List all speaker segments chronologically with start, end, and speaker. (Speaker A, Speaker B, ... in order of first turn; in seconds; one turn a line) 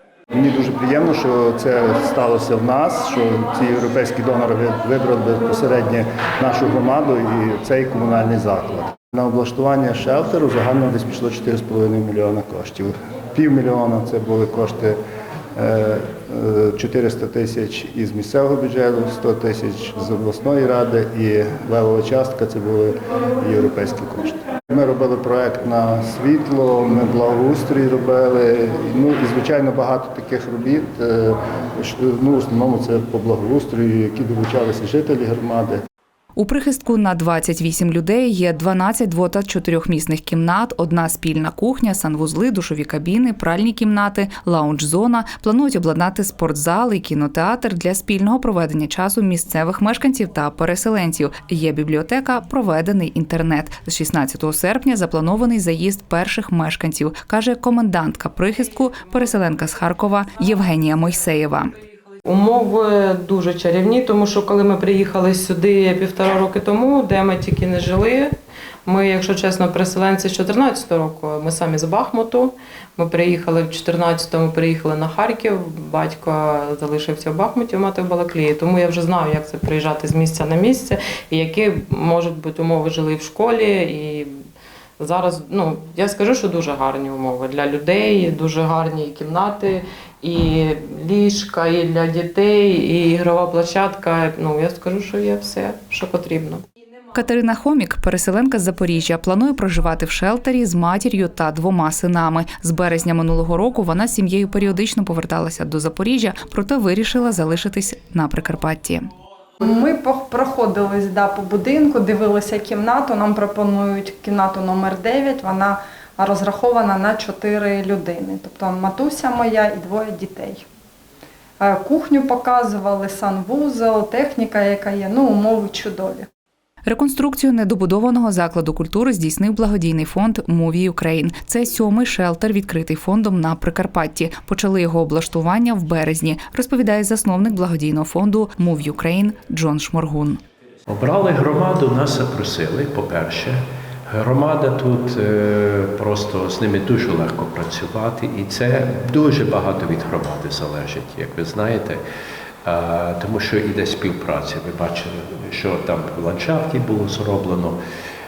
Speaker A: 0.3-15.0
Speaker A: 15.6-35.8
Speaker B: 36.4-61.8
Speaker C: 62.2-68.3
Speaker C: 68.9-84.4
Speaker C: 85.0-96.6
Speaker B: 97.1-109.0
Speaker D: 109.6-120.6
Speaker D: 121.6-126.3
Speaker B: 126.9-140.4
Speaker E: 140.9-152.0
Speaker E: 152.6-157.8